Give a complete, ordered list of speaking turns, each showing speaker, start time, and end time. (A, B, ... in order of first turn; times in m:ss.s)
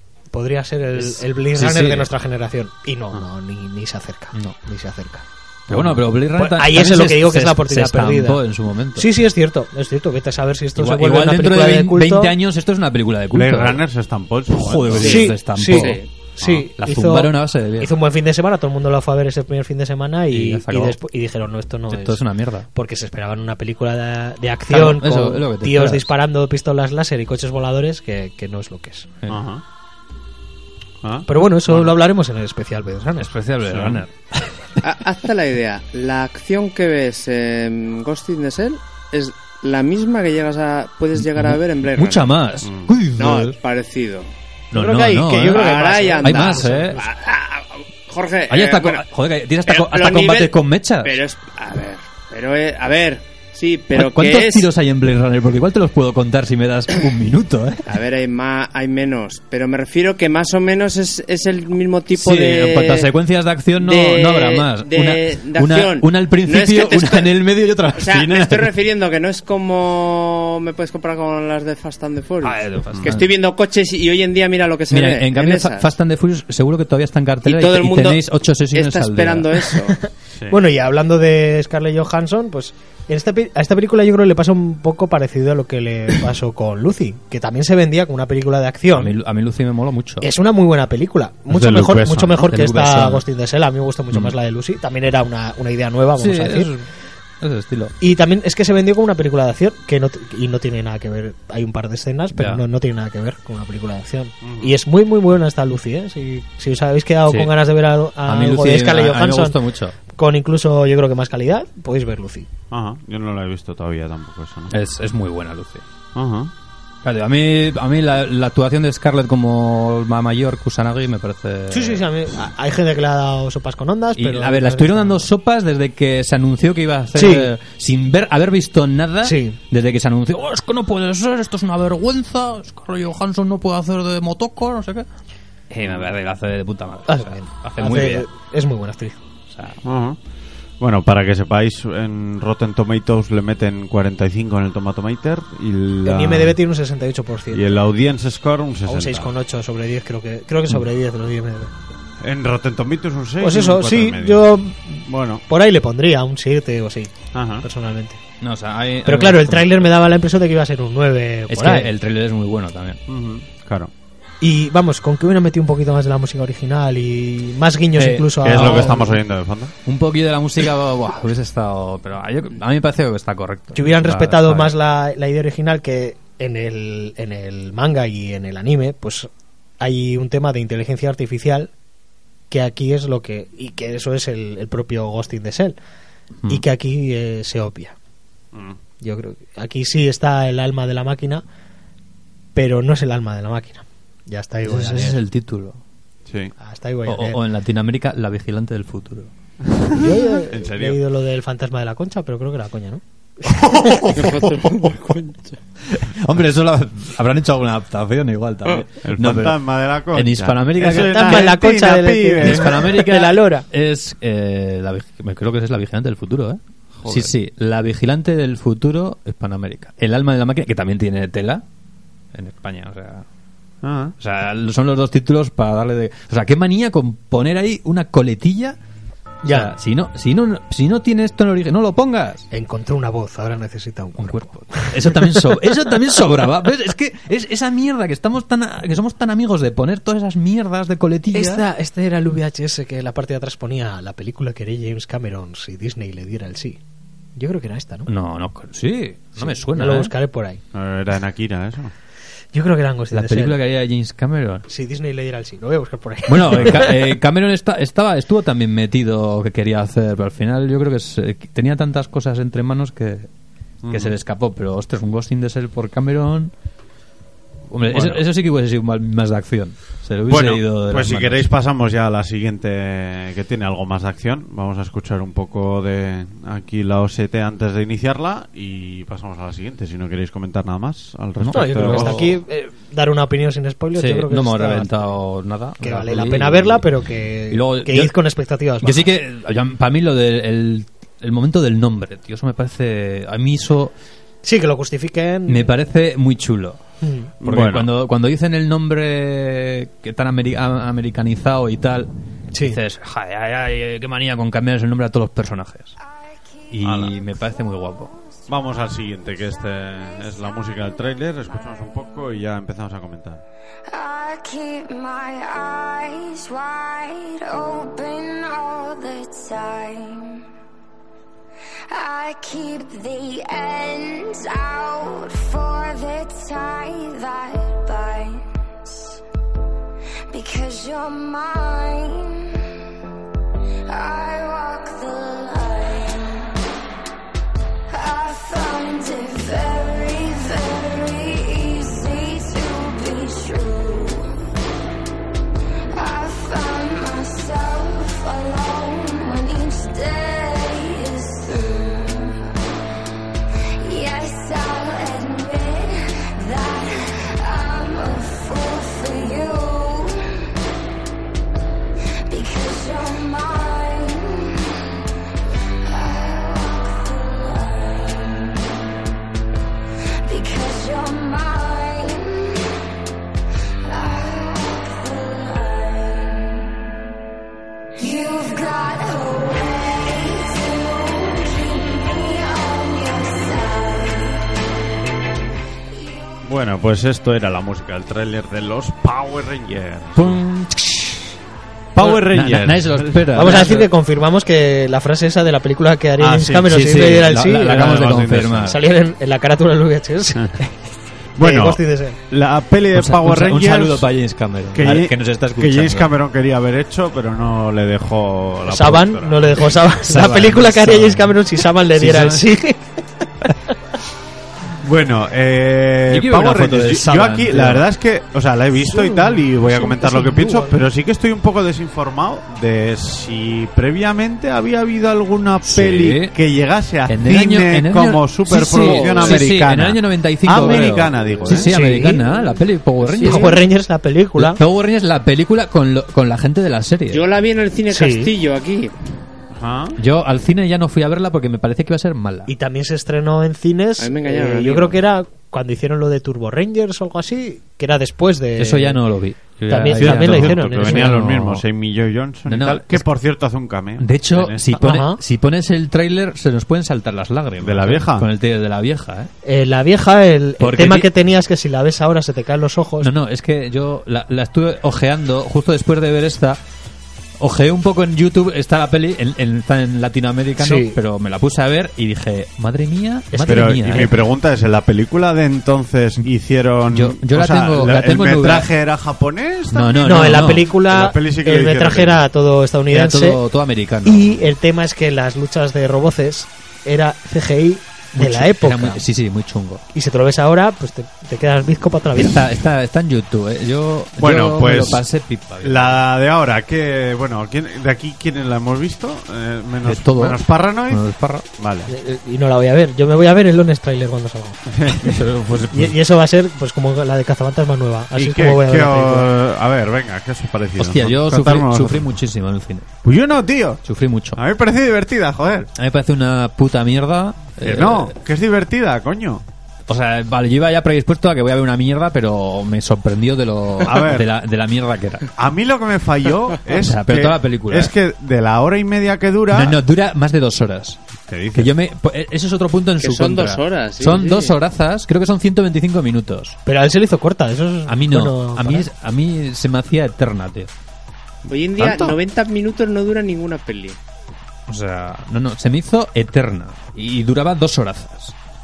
0:00.3-0:05.2 A
0:01.0-0:02.1 B
0:05.7-0:06.1 C
0:05.7-0:09.1 B
0:06.4-0:08.4 A
0:09.0-0:12.3 A
0:10.8-0:13.8 B
0:13.3-0:15.3 C
0:14.5-0:17.9 B
0:14.9-0:16.1 D
0:15.0-0:29.1 A
0:20.3-0:21.0 B
0:21.9-0:22.7 B
0:24.7-0:26.1 B
0:29.3-0:29.6 C
0:31.0-0:31.3 C
0:31.3-0:33.3 A
0:33.2-0:34.5 B
0:33.6-0:34.0 C
0:34.8-0:42.4 D
0:41.2-0:43.6 B
0:42.6-0:43.0 C
0:43.2-0:44.3 D
0:44.7-0:47.0 B
0:44.7-0:47.1 A
0:45.5-0:49.1 D
0:48.5-0:51.2 B
0:49.6-0:54.7 D
0:53.9-0:57.9 B
0:57.9-1:03.1 D
1:02.1-1:08.7 B
1:03.8-1:07.3 D
1:07.9-1:15.9 D
1:12.4-1:13.3 B
1:12.9-1:13.2 C
1:14.9-1:19.7 B
1:17.4-1:20.0 D
1:20.3-1:20.6 C
1:20.5-1:29.1 A
1:28.9-1:30.3 B
1:30.2-1:36.7 A
1:31.5-1:33.2 B
1:31.8-1:32.3 C
1:36.2-1:36.9 B
1:37.4-1:38.0 B
1:38.0-1:49.6 A
1:42.4-1:42.6 B
1:44.4-1:44.7 C
1:47.3-1:47.5 B
1:48.2-1:50.0 B
1:50.1-1:52.5 A
1:52.7-1:54.7 C
1:54.7-1:55.8 B
1:56.2-1:56.5 C
1:57.0-2:02.0 B
2:01.7-2:05.3 A
2:04.2-2:15.1 B
2:07.2-2:07.5 A
2:09.2-2:09.6 A
2:15.7-2:18.3 B
2:15.8-2:16.1 C
2:17.1-2:19.2 A
2:19.5-2:19.8 B
2:19.8-2:20.2 C
2:20.8-2:26.6 C
2:26.0-2:27.8 A
2:27.5-2:29.3 C
2:28.9-2:31.7 A
2:32.2-2:34.5 C
2:33.4-2:38.2 A
2:35.1-2:35.4 C
2:37.3-2:37.7 C
2:38.4-2:39.9 B
2:39.0-2:41.9 A
2:41.5-2:43.0 B
2:43.1-2:43.9 C
2:44.4-2:49.2 A
2:48.0-2:49.1 B
2:48.4-2:49.7 C
2:49.8-2:54.7 B
2:53.7-2:59.3 A
2:59.8-3:01.7 A
3:02.5-3:05.8 A
3:06.5-3:08.0 A
3:08.5-3:08.8 C
3:09.0-3:11.4 A
3:12.6-3:15.2 A
3:14.6-3:15.8 B
3:16.3-3:16.5 C
3:16.6-3:17.4 A
3:17.1-3:19.3 B
3:19.7-3:21.0 C
3:20.0-3:23.9 A
3:23.5-3:25.2 B
3:24.1-3:25.5 D
3:25.8-3:29.6 B
3:29.0-3:33.0 C
3:30.1-3:31.6 B
3:30.8-3:33.7 A
3:32.4-3:41.6 B
3:37.0-3:37.4 C
3:42.3-3:43.3 B
3:43.8-3:44.2 C
3:44.2-3:48.8 B
3:49.4-3:49.7 A
3:49.5-3:52.5 B
3:52.5-3:55.5 A
3:54.2-4:01.6 B
4:01.3-4:06.8 A
4:07.4-4:08.1 A
4:08.1-4:10.1 B
4:09.4-4:10.6 A
4:10.7-4:11.9 C
4:12.5-4:13.6 A
4:13.1-4:14.7 B
4:14.7-4:17.1 A
4:16.3-4:23.3 B
4:23.8-4:24.2 C
4:23.9-4:26.5 B
4:27.7-4:31.4 B
4:27.8-4:28.2 C
4:30.3-4:42.3 C
4:41.4-4:42.4 B
4:41.5-4:45.1 A
4:44.0-4:46.8 B
4:45.8-4:49.1 A
4:47.5-4:48.2 B
4:48.8-4:53.9 B
4:54.4-4:55.7 A
4:55.5-4:56.8 B
4:57.0-4:57.3 A
4:57.4-4:57.9 C
4:57.4-5:05.9 B
5:02.5-5:02.8 A
5:06.0-5:08.5 E
5:06.7-5:08.1 B
5:06.8-5:07.2 C
5:08.5-5:13.4 C
5:10.2-5:10.9 E
5:11.6-5:11.9 E
5:13.9-5:20.4 E
5:21.9-5:29.2 E
5:30.3-5:32.7 E
5:33.9-5:36.6 E
5:37.9-5:44.3 E
5:45.9-5:52.5 E
5:53.8-6:00.5 E
6:02.3-6:05.0 E
6:05.8-6:08.8 E
6:10.2-6:12.8 E
6:13.8-6:16.8 E
6:18.0-6:24.4 E
6:25.9-6:26.4 E
6:26.4-6:30.4 C
6:30.2-6:31.3 B
6:31.9-6:33.8 C
6:32.0-6:33.9 B
6:33.4-6:37.9 A
6:36.2-6:38.8 C
6:36.6-6:38.8 B
6:38.6-6:40.7 A
6:41.4-6:44.1 C
6:41.4-6:42.2 A
6:42.9-6:46.1 B
6:44.7-6:49.8 C
6:48.7-6:52.9 A
6:50.0-6:51.4 B
6:51.9-6:52.5 B
6:54.8-7:11.8 C
6:56.1-6:57.8 B
6:58.8-7:00.8 A
7:05.7-7:06.3 B
7:07.1-7:13.6 B
7:08.7-7:09.5 D
7:10.5-7:13.6 D
7:11.6-7:12.2 A
7:13.2-7:14.6 A
7:14.4-7:17.2 B
7:17.1-7:18.9 D
7:17.9-7:18.3 A
7:19.5-7:20.0 C
7:20.0-7:22.5 B
7:22.5-7:29.0 A
7:24.0-7:25.0 D
7:28.6-7:31.6 B
7:29.7-7:31.1 A
7:29.9-7:34.8 C
7:32.5-7:33.1 B
7:34.0-7:39.3 B
7:34.8-7:35.2 A
7:37.6-7:38.3 C
7:39.4-7:43.1 A
7:40.6-7:41.1 B
7:43.0-7:46.6 B
7:47.4-7:54.2 B
7:50.6-7:51.0 A
7:53.3-7:54.1 A
7:53.5-8:02.3 C
7:56.9-7:58.7 B
7:59.7-8:00.7 B
8:00.0-8:03.4 A
8:02.9-8:04.4 B
8:04.0-8:09.0 A
8:08.2-8:09.8 B
8:09.9-8:12.5 A
8:12.2-8:16.0 B
8:14.2-8:15.0 C
8:15.6-8:21.0 C
8:19.8-8:21.4 B
8:21.6-8:21.9 C
8:21.9-8:24.6 A
8:24.7-8:25.7 C
8:24.9-8:26.0 B
8:25.7-8:29.3 A
8:28.1-8:32.2 C
8:30.8-8:32.9 B
8:33.0-8:33.8 C
8:33.8-8:34.4 B
8:34.3-8:35.7 C
8:35.8-8:38.1 B
8:37.6-8:39.4 C
8:39.9-8:45.3 B
8:43.8-8:44.3 C
8:45.4-8:49.8 C
8:46.8-8:47.9 B
8:49.5-8:51.0 B
8:51.3-8:51.7 C
8:51.6-8:56.6 B
8:53.0-8:54.6 D
8:56.7-8:58.9 A
8:57.9-9:00.7 B
9:01.5-9:04.0 D
9:01.8-9:02.1 B
9:04.7-9:08.3 B